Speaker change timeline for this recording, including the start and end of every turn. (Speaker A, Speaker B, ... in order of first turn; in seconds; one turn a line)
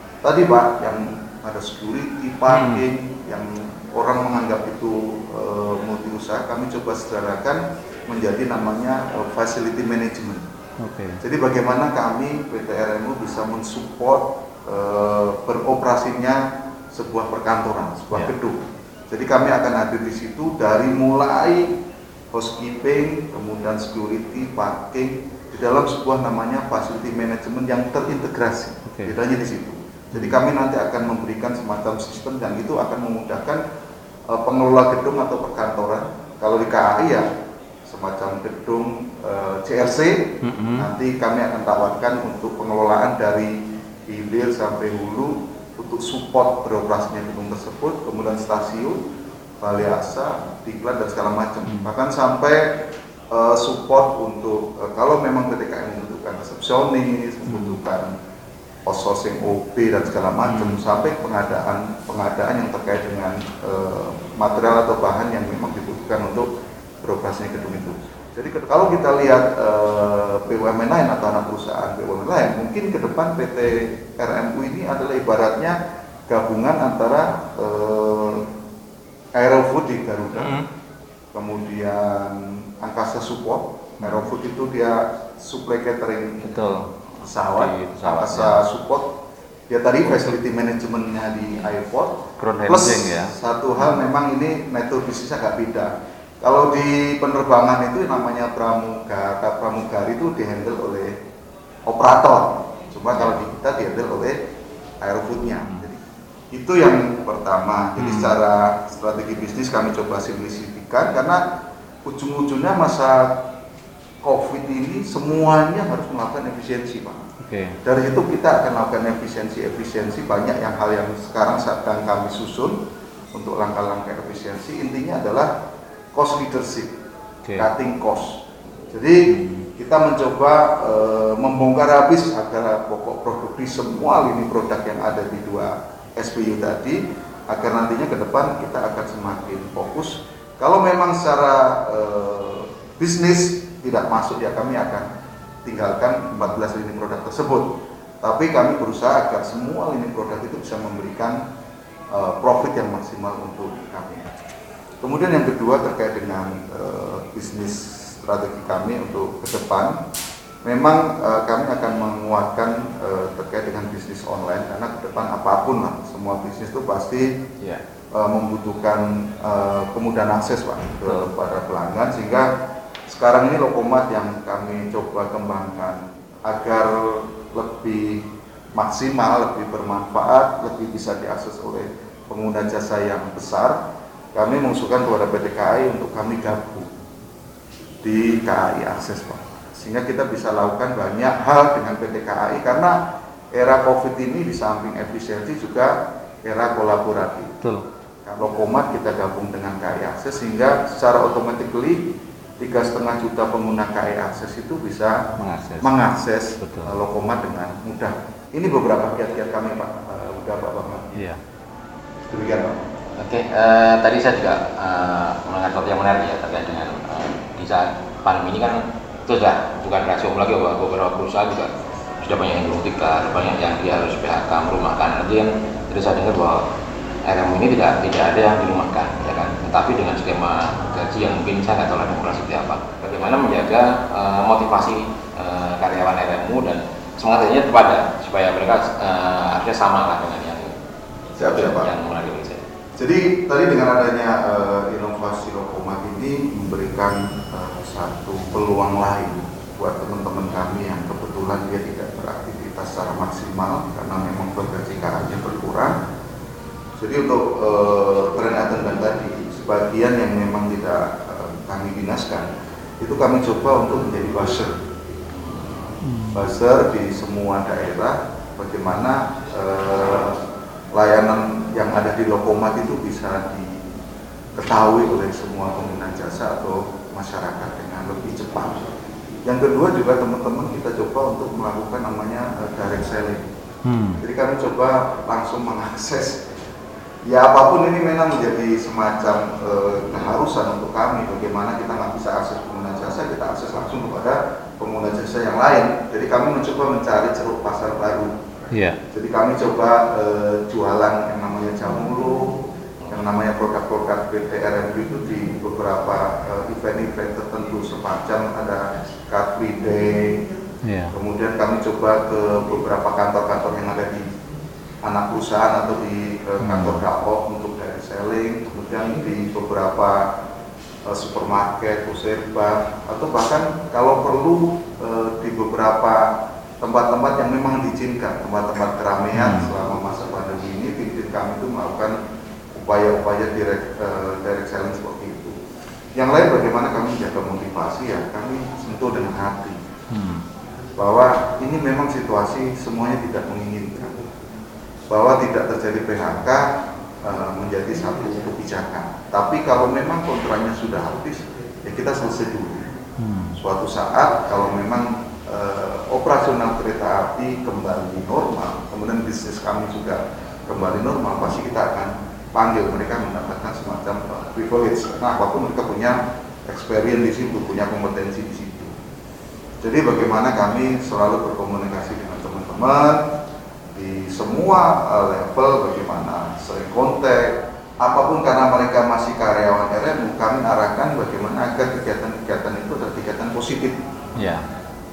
Speaker A: 0.2-10.4
Speaker B: 2.5-2.9
Speaker B: 10.8-11.2
Speaker A: 11.2-21.7
Speaker A: 22.3-33.6
Speaker B: 28.9-29.1
Speaker B: 30.1-30.4
Speaker A: 34.3-37.2
Speaker A: 37.9-49.0
Speaker B: 40.4-40.9
Speaker A: 49.6-52.7
Speaker B: 51.6-51.9
Speaker A: 53.3-58.1
Speaker B: 57.5-57.8
Speaker A: 58.8-66.5
Speaker B: 60.4-60.8
Speaker A: 67.0-75.8
Speaker A: 76.3-78.4
Speaker A: 79.3-80.6
Speaker B: 80.3-80.7
Speaker A: 81.3-86.6
Speaker B: 86.4-88.6
Speaker A: 87.2-89.1
Speaker A: 89.7-101.1
Speaker B: 90.1-90.3
Speaker B: 92.4-94.0
Speaker A: 101.8-104.4
Speaker B: 103.1-103.4
Speaker A: 105.0-106.0
Speaker A: 106.5-111.4
Speaker B: 108.0-108.3
Speaker A: 112.0-113.4
Speaker A: 114.2-117.2
Speaker B: 117.4-117.8
Speaker A: 117.8-122.8
Speaker A: 123.3-125.5
Speaker A: 126.1-126.9
Speaker A: 127.6-129.2
Speaker B: 129.3-129.7
Speaker A: 129.8-145.1
Speaker A: 145.6-151.4
Speaker A: 152.1-154.3
Speaker A: 155.0-160.0
Speaker A: 160.6-167.3
Speaker A: 168.1-172.5
Speaker B: 171.1-171.3
Speaker A: 173.1-183.8
Speaker A: 184.3-186.9
Speaker A: 188.0-193.0
Speaker A: 193.5-197.5
Speaker A: 198.2-205.2
Speaker B: 205.4-205.9
Speaker A: 205.8-211.2
Speaker B: 206.6-206.9
Speaker B: 211.1-211.4
Speaker A: 212.3-212.8
Speaker C: 213.2-226.6
Speaker C: 227.2-240.7
Speaker C: 241.3-242.6
Speaker A: 241.4-241.9
Speaker A: 243.0-256.0
Speaker A: 257.0-262.5
Speaker A: 263.0-264.7
Speaker B: 266.0-266.5
Speaker A: 266.3-270.4
Speaker A: 270.9-273.8
Speaker A: 274.5-278.9
Speaker A: 279.4-283.5
Speaker B: 283.8-284.2
Speaker A: 284.2-286.4
Speaker A: 287.2-298.3
Speaker B: 298.7-299.0
Speaker A: 299.1-310.4
Speaker B: 310.8-311.1
Speaker A: 311.1-314.2
Speaker A: 315.0-320.2
Speaker B: 316.6-317.0
Speaker A: 321.1-326.3
Speaker A: 326.8-332.1
Speaker B: 329.3-329.7
Speaker A: 332.7-335.6
Speaker A: 336.1-339.8
Speaker B: 340.1-340.4
Speaker A: 341.0-344.2
Speaker A: 345.1-346.7
Speaker A: 347.2-352.9
Speaker B: 353.2-353.6
Speaker A: 353.5-368.9
Speaker A: 369.8-373.2
Speaker A: 373.9-384.0
Speaker B: 384.4-384.6